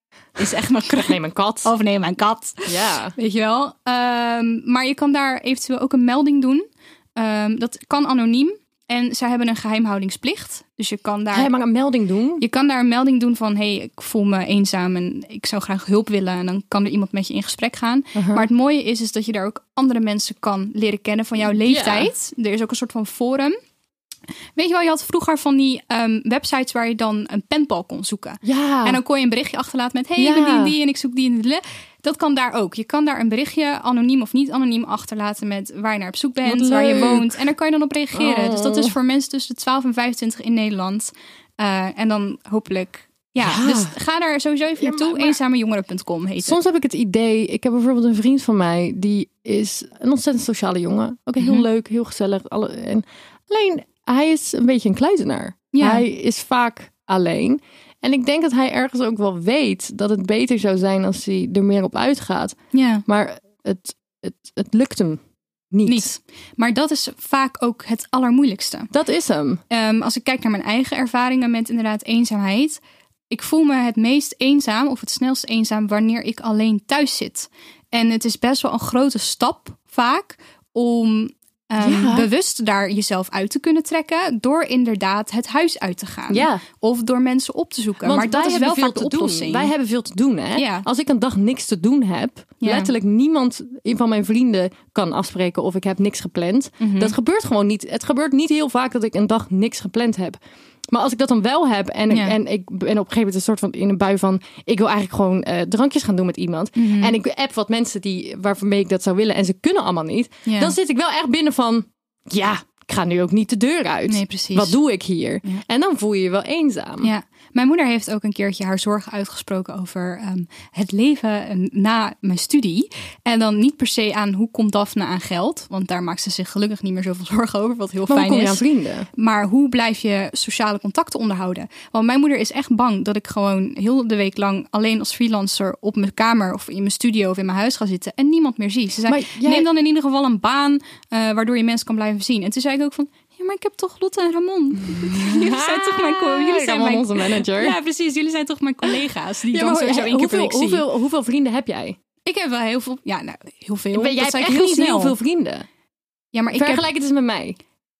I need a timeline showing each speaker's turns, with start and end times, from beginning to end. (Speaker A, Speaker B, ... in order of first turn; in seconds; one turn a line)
Speaker A: 0.4-6.6
Speaker B: 0.9-1.7
Speaker B: 2.6-3.1
Speaker A: 7.2-11.5
Speaker B: 11.3-12.4
Speaker A: 12.4-23.5
Speaker B: 18.1-18.4
Speaker B: 21.5-22.1
Speaker A: 24.5-46.6
Speaker B: 28.4-29.0
Speaker B: 30.1-30.8
Speaker B: 36.4-37.5
Speaker B: 38.1-38.9
Speaker B: 43.4-43.9
Speaker B: 44.8-45.4
Speaker B: 46.4-65.2
Speaker A: 51.4-51.6
Speaker A: 55.7-56.0
Speaker A: 62.7-63.0
Speaker B: 65.7-66.1
Speaker A: 65.8-68.9
Speaker B: 68.9-69.6
Speaker A: 69.7-89.7
Speaker B: 81.8-82.3
Speaker B: 86.3-86.6
Speaker B: 88.0-100.4
Speaker A: 90.5-90.9
Speaker A: 92.6-92.9
Speaker A: 96.8-97.1
Speaker B: 100.9-117.1
Speaker A: 102.1-102.4
Speaker A: 106.8-107.2
Speaker A: 110.5-110.7
Speaker A: 114.1-114.8
Speaker A: 117.0-150.8
Speaker B: 128.1-129.1
Speaker B: 139.1-139.7
Speaker B: 144.9-147.8
Speaker B: 149.5-152.0
Speaker A: 152.2-155.2
Speaker B: 153.9-155.7
Speaker A: 156.3-156.9
Speaker B: 156.5-157.6